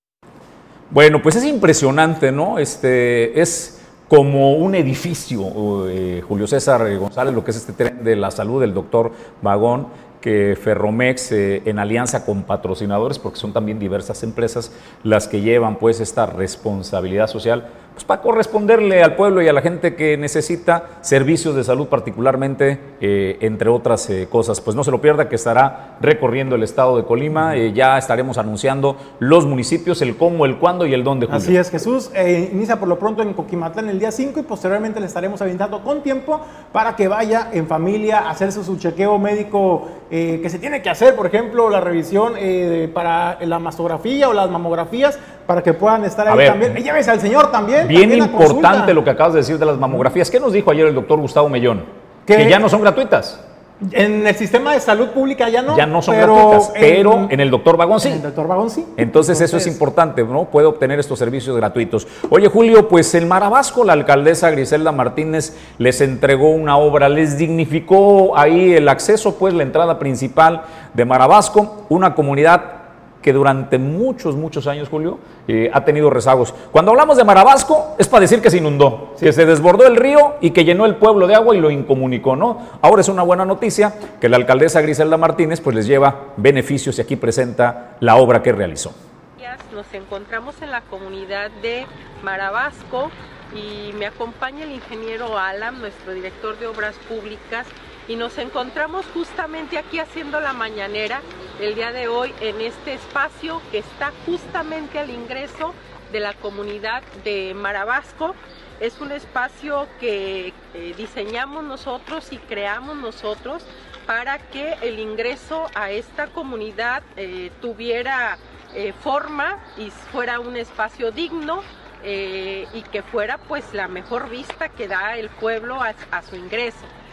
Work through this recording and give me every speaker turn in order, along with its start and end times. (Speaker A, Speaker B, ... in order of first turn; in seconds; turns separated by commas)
Speaker A: 0.9-31.6, Speaker B: 31.3-49.0, Speaker A: 46.3-46.8, Speaker A: 47.8-53.4, Speaker B: 52.3-52.6, Speaker B: 53.8-57.3, Speaker A: 55.7-58.2, Speaker B: 58.0-59.8, Speaker A: 59.0-89.0, Speaker C: 89.4-126.9